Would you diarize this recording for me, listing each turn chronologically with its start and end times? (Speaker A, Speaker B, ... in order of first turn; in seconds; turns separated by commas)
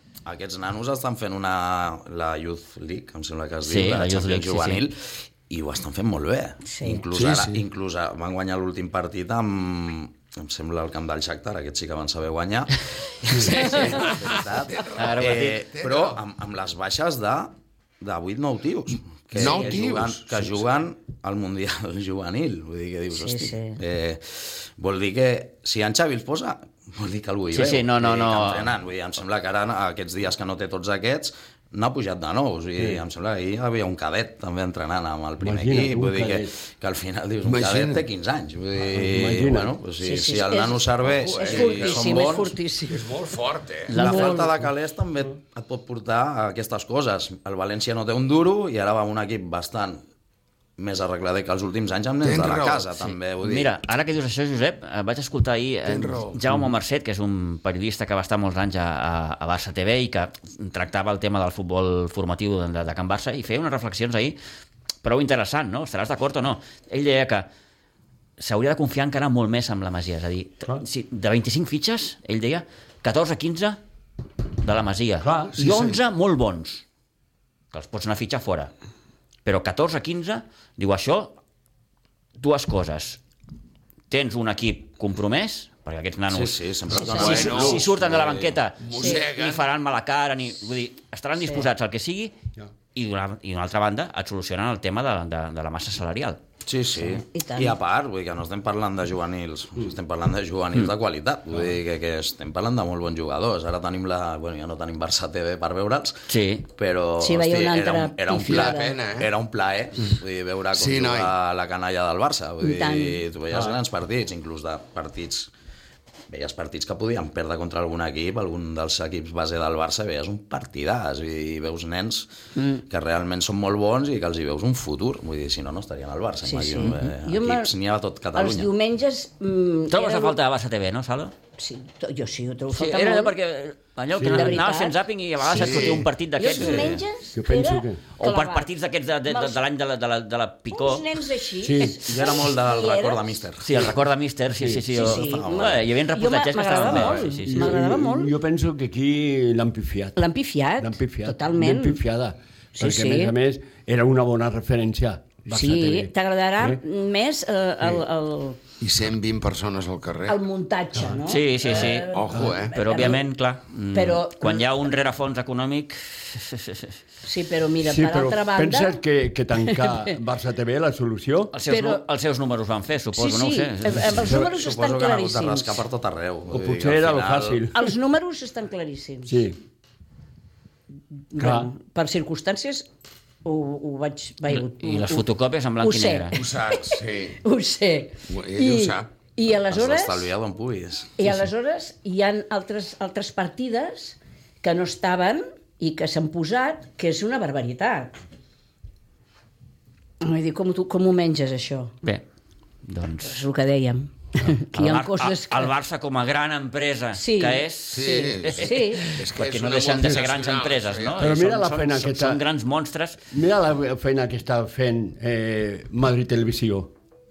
Speaker A: 0.2-42.5, Speaker B: 3.6-4.8, Speaker C: 6.6-7.0, Speaker D: 7.1-7.6, Speaker D: 13.4-16.2, Speaker B: 14.9-15.6, Speaker D: 19.3-20.6, Speaker C: 23.1-23.8, Speaker B: 27.5-28.7, Speaker E: 35.4-36.5, Speaker D: 37.4-38.0, Speaker E: 38.8-39.7, Speaker C: 40.0-43.1, Speaker D: 41.0-42.4, Speaker D: 42.9-43.9, Speaker B: 43.9-44.5, Speaker A: 43.9-50.0, Speaker C: 43.9-44.5, Speaker A: 50.8-53.7, Speaker D: 52.2-52.9, Speaker B: 53.0-64.4, Speaker D: 55.8-56.4, Speaker B: 65.0-67.5, Speaker B: 68.4-73.8, Speaker B: 74.6-76.8, Speaker E: 75.2-75.6, Speaker D: 75.6-76.0, Speaker B: 77.7-78.7, Speaker B: 79.4-81.4, Speaker B: 82.4-83.2, Speaker B: 84.1-92.3, Speaker A: 86.3-88.6, Speaker C: 86.9-87.2, Speaker D: 87.1-87.9, Speaker D: 88.8-89.7, Speaker C: 88.9-89.2, Speaker C: 91.4-91.7, Speaker B: 92.9-96.4, Speaker A: 96.6-115.5, Speaker C: 97.3-97.8, Speaker B: 106.3-106.7, Speaker C: 107.2-108.9, Speaker D: 108.4-109.3, Speaker D: 110.7-111.3, Speaker C: 112.6-113.2, Speaker A: 116.3-122.3, Speaker C: 122.5-122.8, Speaker A: 122.8-128.7, Speaker C: 126.4-127.7, Speaker C: 128.3-130.3, Speaker B: 129.9-131.3, Speaker C: 131.6-133.3, Speaker B: 132.7-137.0, Speaker E: 134.1-134.6, Speaker C: 134.3-134.9, Speaker D: 135.4-136.1, Speaker C: 135.5-138.7, Speaker A: 136.6-137.0, Speaker E: 137.3-138.0, Speaker B: 138.2-141.1, Speaker C: 139.3-139.6, Speaker C: 140.7-143.4, Speaker E: 141.6-142.0, Speaker A: 142.0-143.9, Speaker B: 143.6-147.7, Speaker E: 144.6-144.8, Speaker C: 144.9-148.3, Speaker A: 145.0-145.8, Speaker E: 147.1-150.2, Speaker C: 150.2-152.0, Speaker E: 150.8-156.8, Speaker C: 152.8-153.3, Speaker C: 155.5-158.6, Speaker D: 158.8-160.4, Speaker C: 160.3-163.2, Speaker E: 160.9-161.2, Speaker B: 161.3-166.9, Speaker D: 161.9-162.7, Speaker C: 163.9-164.7, Speaker C: 167.2-169.0, Speaker E: 167.8-171.5, Speaker C: 169.6-170.1, Speaker B: 171.5-174.2, Speaker C: 171.7-172.0, Speaker C: 173.1-175.8, Speaker A: 174.1-177.6, Speaker E: 176.5-177.9, Speaker C: 177.7-179.4, Speaker E: 179.3-179.6, Speaker C: 181.3-182.9, Speaker E: 181.4-181.7, Speaker C: 183.4-185.2, Speaker B: 184.5-186.4, Speaker C: 185.8-190.3, Speaker D: 186.3-187.4, Speaker D: 188.3-189.1, Speaker A: 189.6-191.4, Speaker C: 191.2-198.2, Speaker C: 200.2-201.9, Speaker B: 202.8-203.3, Speaker C: 203.2-205.7, Speaker B: 204.7-213.2, Speaker C: 207.1-209.1, Speaker D: 207.9-211.3, Speaker E: 211.2-212.4, Speaker E: 213.3-216.9